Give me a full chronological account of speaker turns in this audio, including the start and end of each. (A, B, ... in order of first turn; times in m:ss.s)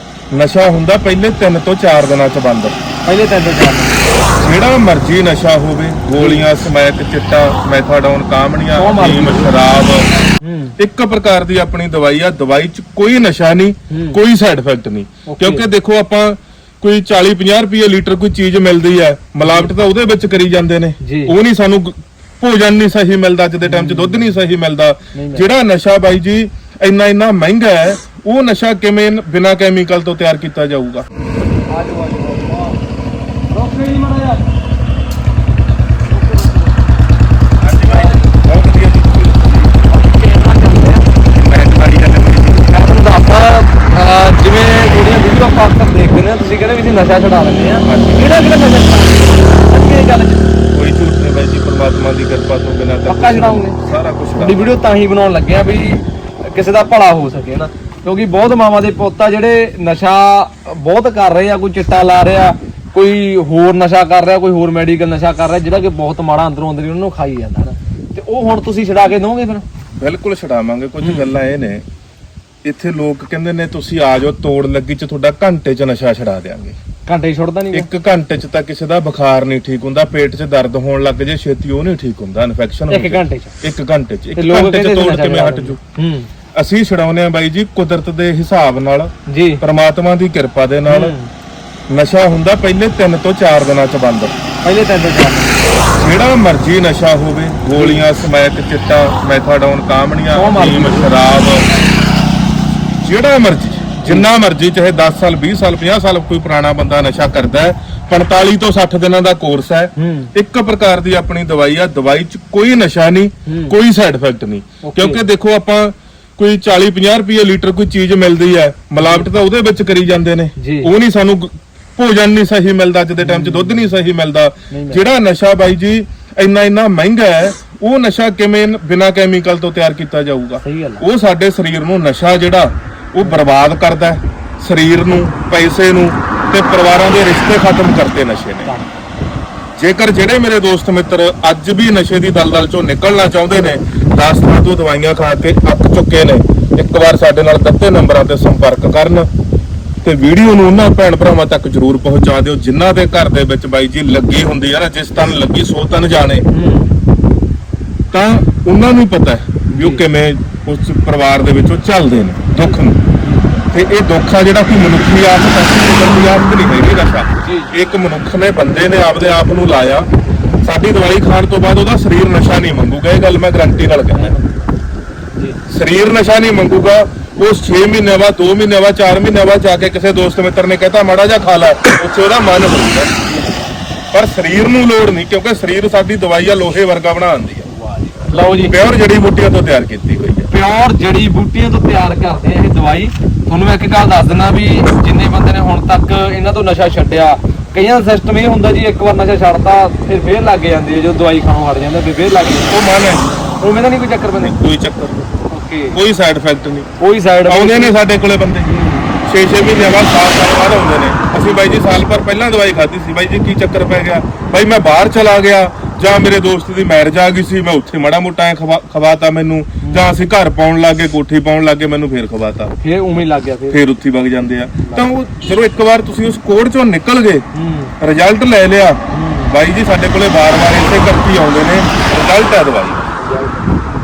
0:00.3-0:02.8 A
0:03.0-0:04.1 B
0:04.4-0:10.1 A
0:06.2-0:06.5 B
0:08.8-0:09.5 B
0:10.4-0:10.8 B
0:10.8-0:31.0 A
0:13.9-0:14.2 B
0:15.3-0:15.7 B
0:19.4-0:19.7 B
0:21.0-0:21.3 B
0:23.6-0:24.4 B
0:25.1-0:25.5 B
0:31.7-0:32.8 B
0:33.5-0:34.4 B
0:36.1-0:36.9 B
0:37.6-0:39.7 A
0:37.8-0:38.2 B
0:39.8-0:41.1 B
0:41.3-0:42.6 A
0:42.5-0:50.5 B
0:47.8-0:48.6 A
0:50.7-0:54.7 A
0:53.1-0:53.8 B
0:54.4-1:09.6 B
1:10.0-1:11.8 A
1:11.0-1:11.3 B
1:12.6-1:16.8 A
1:17.0-1:17.9 B
1:17.7-1:25.8 A
1:22.9-1:23.6 B
1:24.4-1:26.3 B
1:26.6-1:31.1 A
1:29.3-1:29.6 B
1:30.9-1:31.3 B
1:31.9-1:34.4 A
1:34.6-1:35.7 B
1:35.9-1:41.7 A
1:37.8-1:38.0 B
1:40.3-1:41.1 B
1:43.0-2:18.7 A
1:44.0-1:44.3 B
1:50.0-1:50.3 B
1:53.4-1:53.7 B
1:54.8-1:55.2 B
1:59.0-1:59.3 B
2:00.6-2:00.9 B
2:03.2-2:04.0 B
2:04.7-2:05.0 B
2:10.6-2:11.0 B
2:18.6-2:19.0 B
2:19.8-2:29.3 A
2:30.0-2:36.4 A
2:36.5-2:37.0 B
2:38.1-2:43.0 A
2:39.7-2:40.0 B
2:42.6-2:43.6 B
2:43.7-2:50.1 A
2:47.4-2:47.7 B
2:50.6-2:54.4 A
2:54.1-2:54.6 B
2:55.3-2:55.6 B
2:55.7-3:03.1 A
3:03.2-3:03.6 B
3:04.1-3:07.7 A
3:07.7-3:08.8 B
3:08.5-3:10.5 A
3:10.5-3:22.9 B
3:22.7-3:23.4 A
3:23.6-3:24.5 B
3:24.4-3:25.2 A
3:25.5-3:26.0 B
3:25.9-3:26.9 A
3:27.0-3:27.9 B
3:27.5-3:28.7 A
3:28.6-3:29.1 B
3:29.2-3:42.7 A
3:31.4-3:31.9 B
3:42.8-3:43.8 B
3:43.7-3:47.4 A
3:47.5-3:47.9 B
3:48.0-3:53.1 A
3:49.1-3:49.5 B
3:53.2-3:53.8 B